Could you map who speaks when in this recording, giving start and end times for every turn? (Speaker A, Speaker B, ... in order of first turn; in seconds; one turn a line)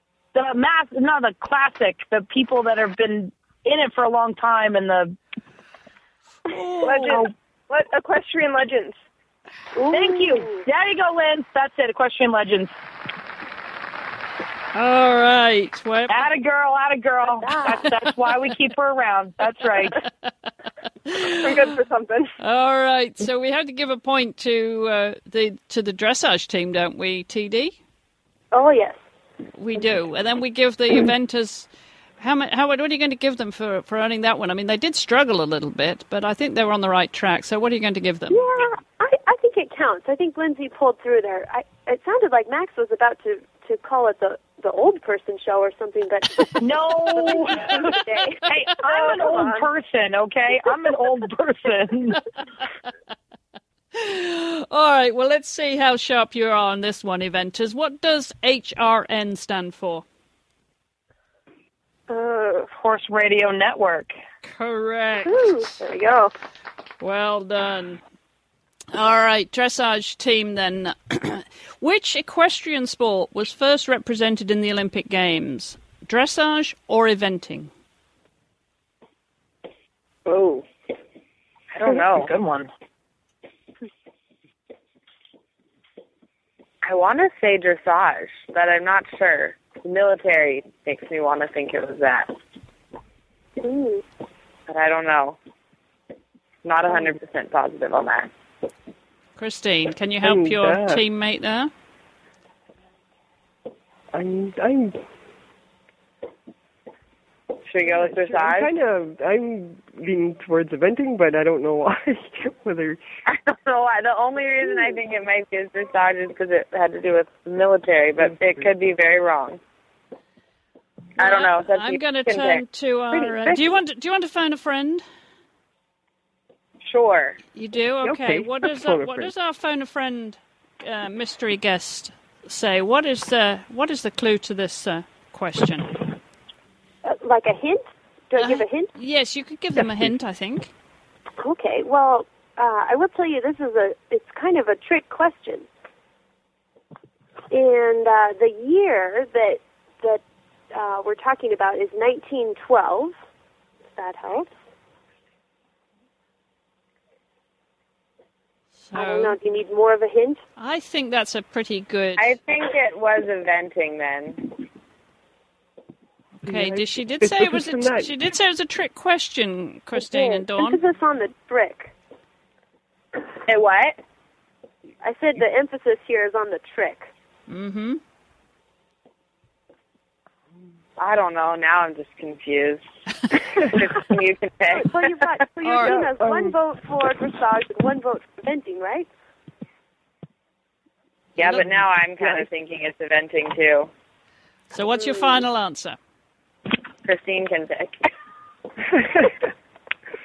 Speaker A: 0.3-5.2
Speaker B: 6.5-7.2
Speaker C: 6.8-9.0
Speaker D: 9.7-10.7
Speaker A: 9.9-12.7
Speaker B: 14.7-16.2
Speaker A: 16.1-20.0
Speaker D: 17.4-17.9
Speaker B: 21.1-21.6
Speaker C: 21.2-22.3
Speaker B: 22.4-27.8
Speaker D: 28.5-29.0
Speaker B: 29.5-31.7
Speaker B: 32.2-38.4
Speaker D: 38.3-46.6
Speaker A: 46.6-52.2
Speaker C: 47.6-49.7
Speaker D: 47.6-48.4
Speaker B: 53.9-60.0
Speaker C: 62.1-62.6
Speaker A: 62.7-64.1
Speaker B: 64.4-65.7
Speaker D: 65.3-66.3
Speaker B: 67.0-68.0
Speaker B: 68.9-77.7
Speaker E: 80.2-80.7
Speaker E: 81.7-82.3
Speaker A: 81.8-82.7
Speaker E: 86.8-92.3
Speaker D: 93.6-94.0
Speaker E: 94.7-95.4
Speaker E: 96.6-98.3
Speaker B: 99.3-101.7
Speaker F: 100.2-101.0
Speaker F: 104.1-105.0
Speaker E: 107.7-108.7
Speaker F: 107.8-113.0
Speaker E: 113.3-119.6
Speaker F: 118.2-118.6
Speaker E: 121.2-123.6
Speaker B: 121.2-125.0
Speaker E: 126.8-127.4
Speaker B: 127.5-136.0
Speaker F: 128.0-129.3
Speaker D: 137.0-138.9
Speaker B: 138.4-140.7
Speaker F: 139.8-140.1
Speaker D: 141.4-145.7
Speaker D: 147.5-153.1
Speaker D: 154.0-154.5
Speaker B: 158.9-159.3
Speaker D: 158.9-160.4
Speaker B: 160.6-162.3
Speaker E: 162.2-164.5
Speaker F: 166.4-168.1
Speaker B: 166.4-170.8
Speaker D: 169.9-171.9
Speaker E: 173.5-174.0
Speaker D: 175.0-177.1
Speaker B: 177.5-178.0
Speaker E: 181.0-182.8
Speaker E: 183.3-185.0
Speaker D: 184.7-189.1
Speaker B: 185.6-186.0
Speaker F: 186.2-186.5
Speaker E: 191.4-193.9
Speaker F: 192.2-192.5
Speaker B: 194.7-196.0
Speaker D: 194.9-195.4
Speaker E: 197.0-198.1
Speaker F: 198.9-199.3